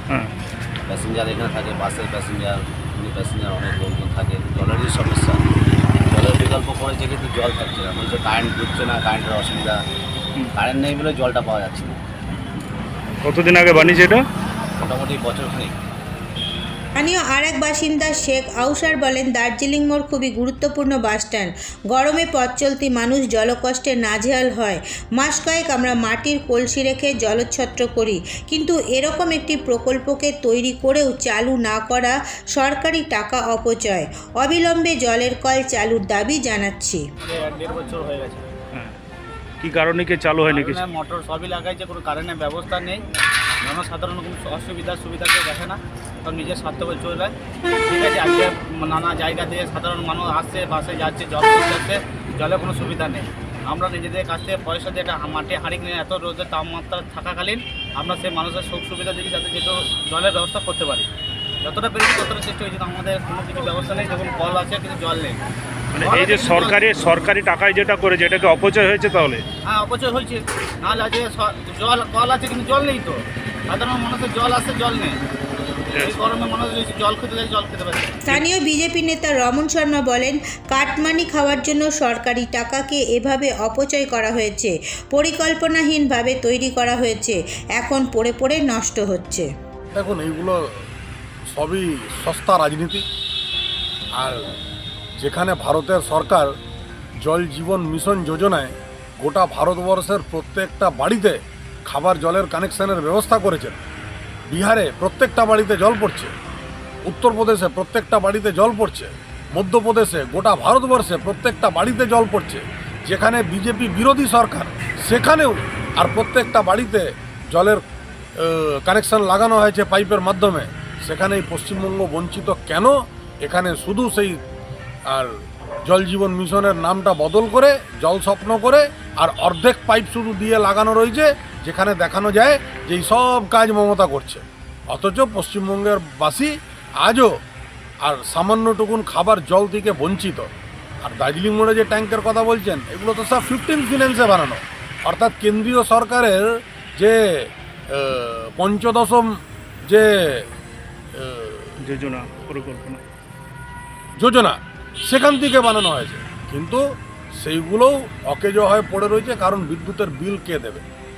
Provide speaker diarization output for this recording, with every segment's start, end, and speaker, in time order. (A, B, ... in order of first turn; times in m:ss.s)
0:00.9-0:05.4 A
0:06.1-0:09.8 A
0:10.6-0:12.0 A
0:13.2-0:14.2 B
0:14.8-0:15.7 A
0:17.0-0:37.0 C
0:37.2-0:38.5 D
0:39.6-0:40.8 B
0:40.5-0:43.0 D
0:43.6-0:47.3 D
0:47.9-1:01.1 D
1:01.6-1:05.4 D
1:05.9-1:09.4 B
1:06.0-1:06.9 D
1:09.7-1:13.2 D
1:13.7-1:15.2 D
1:15.9-1:16.2 B
1:15.9-1:18.4 D
1:18.2-1:29.5 C
1:29.9-1:30.6 E
1:31.5-1:33.0 E
1:34.2-1:34.4 E
1:35.2-1:36.5 E
1:37.2-1:43.8 E
1:44.5-1:46.3 E
1:47.1-1:57.8 E
1:58.4-2:04.4 E
2:05.9-2:17.4 E
2:18.0-2:20.5 E
2:21.0-2:30.5 E
2:31.2-2:31.8 E
2:31.8-2:33.0 B
2:34.2-2:36.8 E
2:37.4-2:40.8 E